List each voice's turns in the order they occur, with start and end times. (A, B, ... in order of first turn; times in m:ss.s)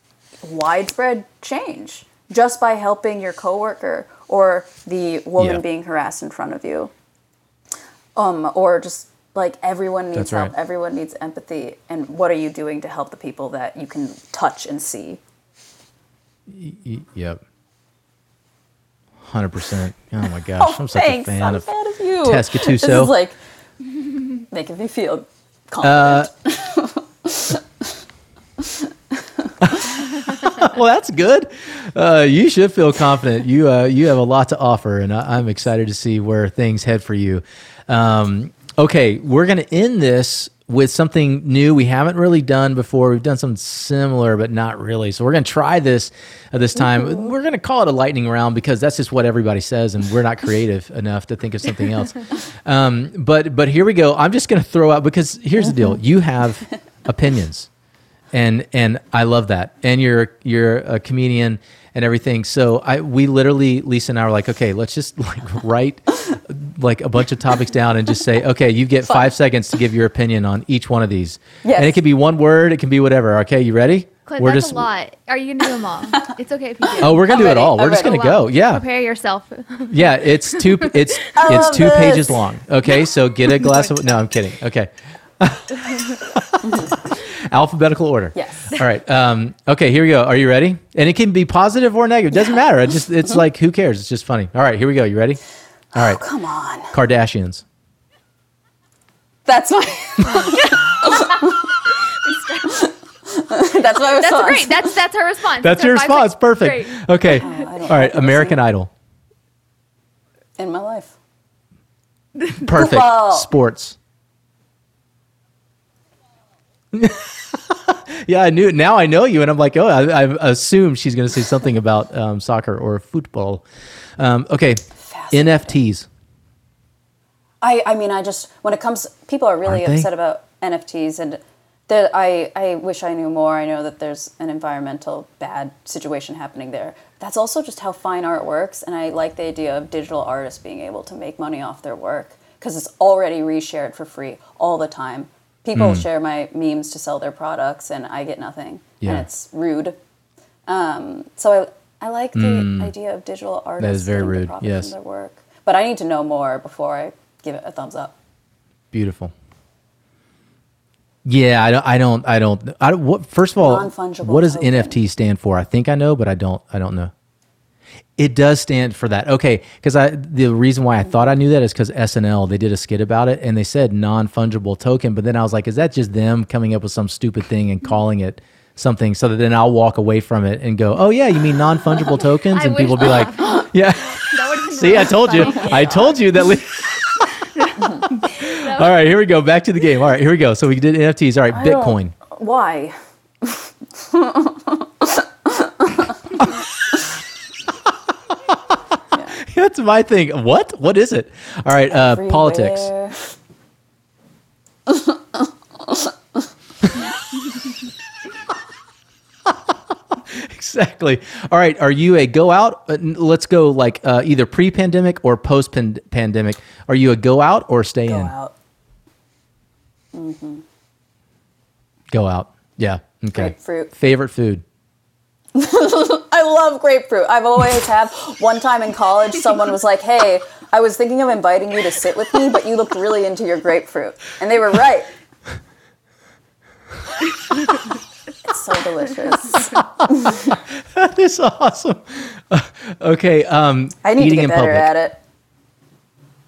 0:00.4-0:06.9 A
0:08.2-0:15.2 A
0:10.2-0:10.5 B
0:16.5-0:17.4 B
0:19.2-0:21.7 B
0:20.6-0:23.4 A
0:22.2-0:23.2 B
0:24.5-0:27.9 A
0:25.8-0:26.3 B
0:28.6-0:29.9 A
0:29.6-0:57.7 B
0:46.8-0:47.3 A
0:55.6-0:56.0 A
0:58.3-1:14.9 B
1:09.1-1:09.3 A
1:11.6-1:12.0 A
1:14.3-1:20.9 C
1:16.9-1:18.3 A
1:17.0-1:18.8 B
1:19.9-1:35.4 B
1:21.3-1:22.4 A
1:23.6-1:24.1 C
1:26.6-1:26.9 A
1:28.4-1:28.8 A
1:36.0-1:36.2 B
1:36.0-1:37.0 A
1:36.9-1:37.6 B
1:39.5-1:41.7 A
1:40.5-1:41.6 C
1:42.2-1:42.7 C
1:42.6-1:44.9 A
1:44.2-1:47.6 C
1:45.6-1:48.9 B
1:47.3-1:48.6 A
1:50.6-1:51.2 A
1:52.6-1:54.0 B
1:52.7-1:53.5 A
1:56.9-2:03.7 B
2:04.2-2:06.1 B
2:05.0-2:05.8 A
2:07.6-2:30.0 A
2:09.6-2:10.1 B
2:25.8-2:26.1 B
2:30.7-2:38.2 A
2:32.4-2:32.9 B
2:33.8-2:34.9 B
2:38.9-2:39.3 B
2:41.2-2:47.1 B
2:43.6-2:45.0 A
2:48.2-3:07.2 B
3:02.5-3:06.2 C
3:05.4-3:06.2 A
3:07.6-3:08.9 C
3:08.4-3:12.1 B
3:11.5-3:16.5 A
3:19.1-3:19.4 A
3:19.4-3:22.9 B
3:21.9-3:23.4 A
3:24.9-3:26.1 A
3:30.1-3:38.3 B
3:38.1-3:38.5 A
3:40.1-3:40.6 A
3:42.1-3:44.6 B
3:43.4-3:43.9 A
3:45.6-3:55.1 A
3:58.4-4:00.5 A
3:59.8-4:04.9 B
4:04.0-4:05.2 A